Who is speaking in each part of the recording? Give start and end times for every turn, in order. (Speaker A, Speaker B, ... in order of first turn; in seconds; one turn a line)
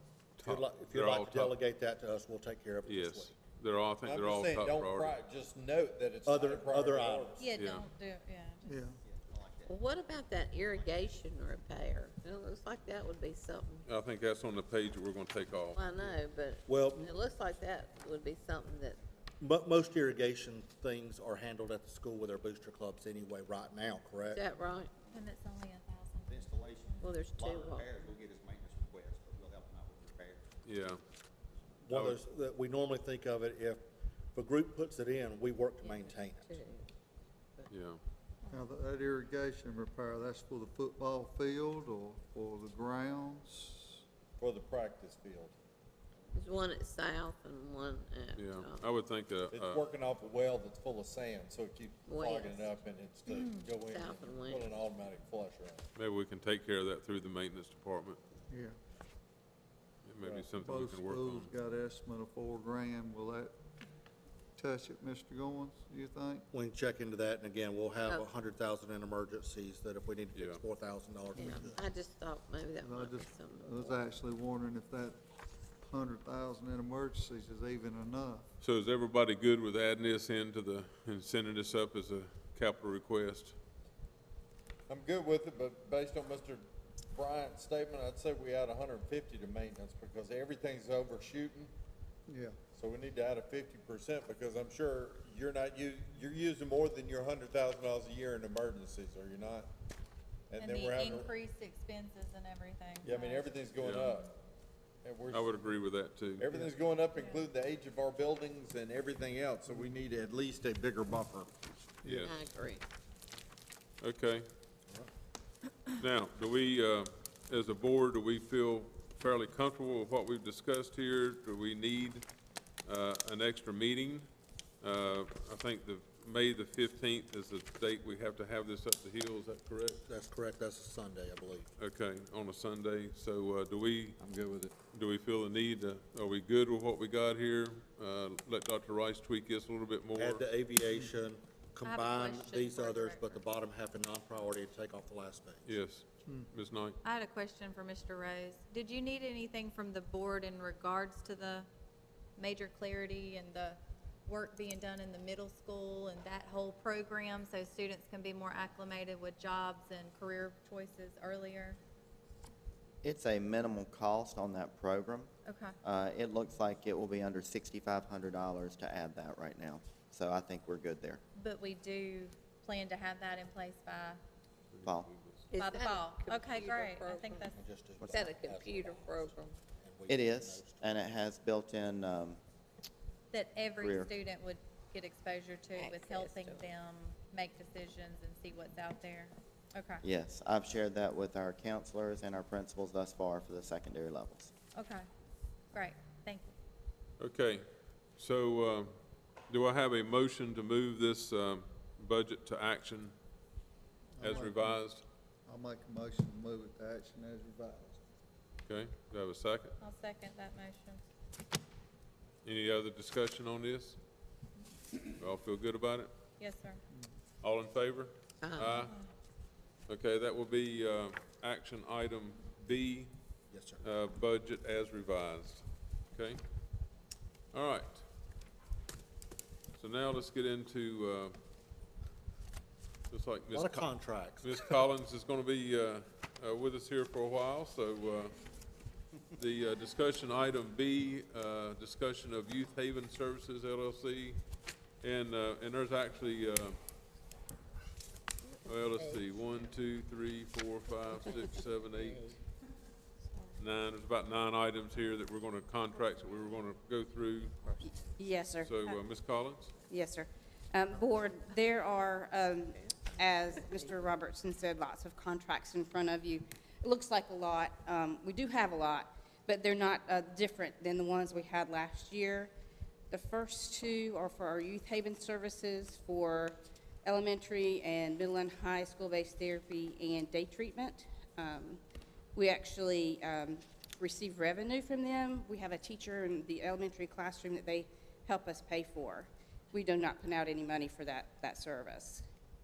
Speaker A: 0.4-1.5
Speaker B: 0.4-3.4
Speaker A: 2.9-5.2
Speaker C: 4.0-7.5
Speaker B: 6.2-7.5
Speaker D: 7.4-8.9
Speaker A: 7.6-7.8
Speaker E: 8.7-9.0
Speaker F: 9.7-13.8
Speaker A: 13.8-15.8
Speaker F: 15.7-19.0
Speaker B: 16.7-17.1
Speaker B: 19.4-24.4
Speaker F: 24.3-24.9
Speaker D: 25.1-27.2
Speaker G: 26.4-26.7
Speaker F: 27.0-28.1
Speaker G: 28.1-30.4
Speaker A: 30.6-31.0
Speaker B: 31.8-33.8
Speaker A: 31.9-32.2
Speaker B: 34.3-36.6
Speaker F: 36.0-36.9
Speaker A: 37.7-38.0
Speaker E: 38.5-44.0
Speaker C: 44.4-45.5
Speaker F: 46.3-48.8
Speaker A: 48.4-49.8
Speaker C: 49.5-55.9
Speaker F: 52.0-52.8
Speaker D: 53.3-53.7
Speaker F: 53.7-54.7
Speaker A: 56.0-58.2
Speaker E: 58.5-58.8
Speaker A: 60.0-61.5
Speaker E: 60.6-63.5
Speaker E: 64.6-66.5
Speaker B: 66.5-71.8
Speaker A: 70.3-70.6
Speaker E: 71.4-71.8
Speaker F: 71.4-74.1
Speaker E: 72.8-75.2
Speaker E: 75.8-78.5
Speaker A: 78.6-83.6
Speaker C: 84.9-91.7
Speaker E: 92.3-92.6
Speaker C: 92.7-99.7
Speaker C: 100.5-101.3
Speaker D: 100.6-103.5
Speaker C: 103.0-104.3
Speaker A: 103.8-104.1
Speaker C: 105.0-105.6
Speaker A: 105.3-106.5
Speaker C: 106.4-111.5
Speaker D: 107.2-107.5
Speaker B: 110.7-111.5
Speaker E: 112.0-112.3
Speaker A: 112.0-112.3
Speaker F: 112.2-112.8
Speaker A: 114.0-114.5
Speaker A: 116.0-122.2
Speaker A: 122.8-124.3
Speaker A: 124.8-130.0
Speaker B: 130.1-131.7
Speaker A: 131.8-134.2
Speaker B: 134.2-134.7
Speaker C: 134.2-134.7
Speaker A: 134.9-140.4
Speaker B: 140.1-145.7
Speaker D: 141.8-143.4
Speaker A: 145.7-147.0
Speaker D: 147.0-151.7
Speaker D: 152.4-161.8
Speaker H: 163.0-165.3
Speaker D: 165.5-165.8
Speaker H: 165.8-171.2
Speaker D: 171.4-174.2
Speaker A: 174.7-175.5
Speaker F: 175.5-177.5
Speaker D: 175.6-177.6
Speaker B: 177.5-180.9
Speaker F: 178.0-179.6
Speaker H: 180.1-182.4
Speaker D: 183.3-190.0
Speaker H: 183.8-184.1
Speaker F: 185.8-186.7
Speaker H: 190.0-194.5
Speaker D: 194.8-195.1
Speaker D: 195.7-196.5
Speaker A: 197.2-198.9
Speaker A: 199.5-203.1
Speaker E: 204.2-204.8
Speaker A: 204.2-205.1
Speaker E: 205.5-208.0
Speaker A: 208.7-209.8
Speaker D: 209.8-211.0
Speaker A: 212.4-214.0
Speaker A: 215.2-216.1
Speaker D: 216.4-216.8
Speaker A: 217.4-218.9
Speaker F: 218.4-218.8
Speaker D: 218.8-219.1
Speaker A: 219.9-223.1
Speaker B: 223.5-223.8
Speaker A: 223.8-226.4
Speaker A: 227.5-228.0
Speaker A: 229.8-231.3
Speaker A: 233.1-238.4
Speaker B: 233.5-234.6
Speaker A: 239.3-244.4
Speaker A: 245.0-246.8
Speaker A: 248.7-252.4
Speaker A: 253.6-257.6
Speaker I: 257.8-259.0
Speaker A: 258.6-259.7
Speaker I: 259.9-272.5
Speaker I: 273.1-281.8
Speaker I: 282.4-292.2